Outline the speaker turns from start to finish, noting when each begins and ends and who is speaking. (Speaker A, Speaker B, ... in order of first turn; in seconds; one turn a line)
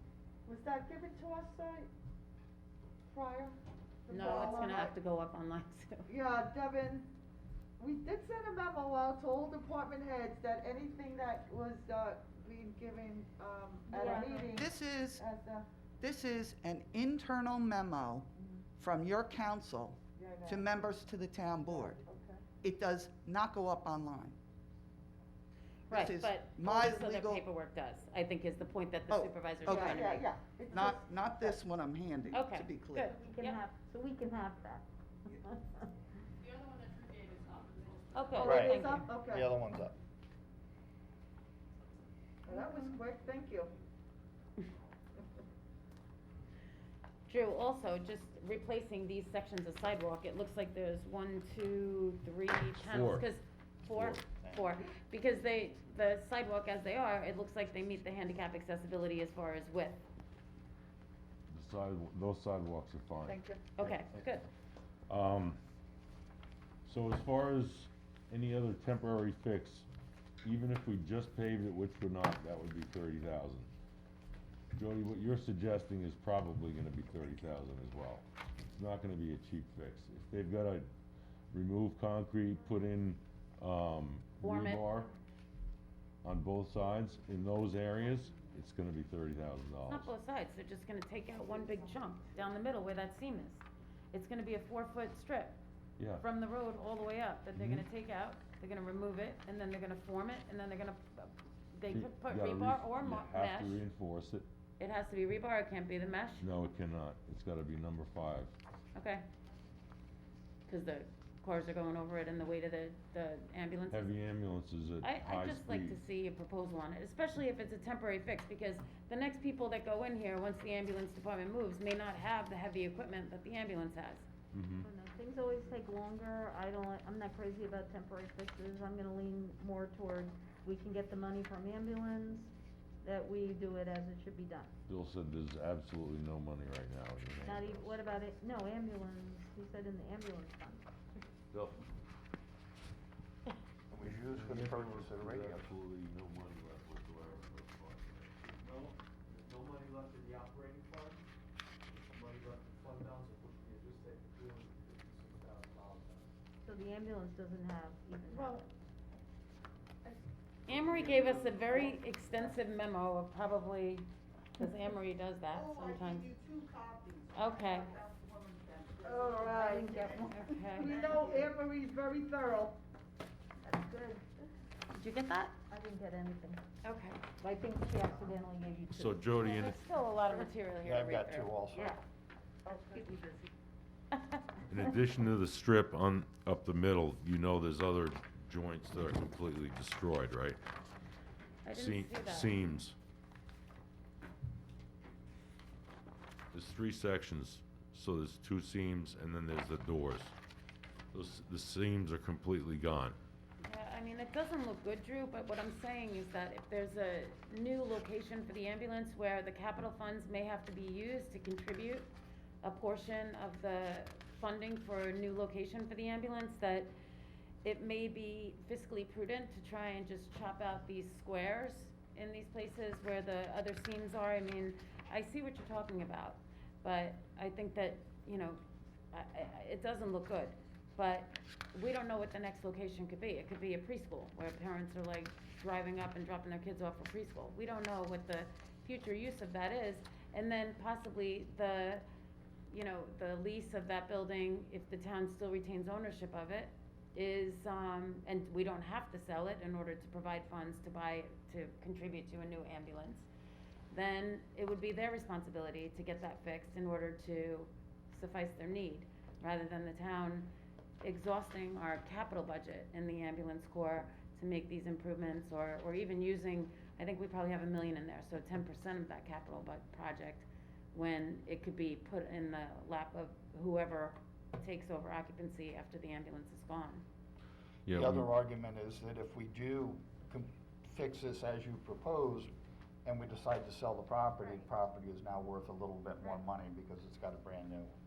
Speaker A: 0.4-1.9
Speaker A: 3.1-4.9
Speaker B: 4.1-6.1
Speaker A: 6.1-7.1
Speaker A: 7.8-15.7
Speaker C: 13.9-14.5
Speaker D: 14.5-15.2
Speaker D: 16.0-22.0
Speaker A: 18.4-18.6
Speaker A: 20.1-20.8
Speaker A: 21.7-22.4
Speaker D: 22.6-24.4
Speaker B: 25.9-30.3
Speaker D: 25.9-27.4
Speaker D: 29.1-30.2
Speaker A: 29.7-31.6
Speaker D: 30.7-33.1
Speaker B: 32.3-33.6
Speaker C: 33.2-35.9
Speaker E: 36.4-38.4
Speaker B: 38.1-39.1
Speaker A: 38.4-39.5
Speaker F: 38.4-39.9
Speaker A: 42.4-43.7
Speaker C: 42.5-43.0
Speaker B: 47.3-60.0
Speaker G: 52.8-53.3
Speaker G: 53.9-54.3
Speaker F: 54.3-54.8
Speaker G: 61.5-64.2
Speaker A: 63.2-63.6
Speaker B: 63.7-64.5
Speaker G: 65.1-65.6
Speaker G: 66.8-69.9
Speaker G: 70.4-73.7
Speaker G: 74.7-80.9
Speaker G: 81.5-85.1
Speaker B: 84.4-84.9
Speaker G: 86.2-90.1
Speaker B: 89.8-95.6
Speaker G: 96.0-96.2
Speaker B: 96.2-103.8
Speaker G: 97.5-97.9
Speaker G: 101.9-104.5
Speaker B: 104.8-106.5
Speaker G: 106.4-108.5
Speaker B: 108.9-109.2
Speaker B: 110.7-114.1
Speaker G: 113.9-116.0
Speaker B: 115.0-124.3
Speaker G: 124.5-124.8
Speaker C: 124.8-132.5
Speaker C: 133.0-134.7
Speaker G: 134.9-138.2
Speaker C: 137.4-140.8
Speaker G: 141.5-141.8
Speaker F: 143.9-145.7
Speaker G: 144.1-148.3
Speaker H: 148.4-151.2
Speaker H: 151.9-156.3
Speaker C: 156.6-158.7
Speaker A: 158.3-158.6
Speaker B: 160.7-166.3
Speaker H: 160.8-161.8
Speaker A: 161.4-162.5
Speaker A: 165.5-172.8
Speaker B: 167.3-167.9
Speaker C: 169.0-171.5
Speaker B: 169.9-171.2
Speaker C: 173.6-174.2
Speaker B: 174.9-175.5
Speaker C: 175.7-176.6
Speaker B: 176.8-177.2
Speaker C: 177.4-180.5
Speaker G: 178.9-179.8
Speaker B: 179.5-181.6
Speaker F: 180.8-181.9
Speaker C: 181.7-182.0
Speaker C: 182.7-183.5
Speaker G: 184.7-190.6
Speaker B: 191.6-192.5
Speaker G: 191.7-192.9
Speaker G: 196.5-200.3
Speaker G: 201.1-203.2
Speaker B: 203.6-212.1
Speaker B: 212.6-216.9
Speaker B: 217.6-228.6
Speaker B: 229.1-242.0
Speaker B: 242.7-253.3
Speaker B: 253.9-277.0
Speaker G: 277.9-278.3
Speaker F: 277.9-282.5
Speaker F: 283.0-287.9
Speaker C: 284.4-284.7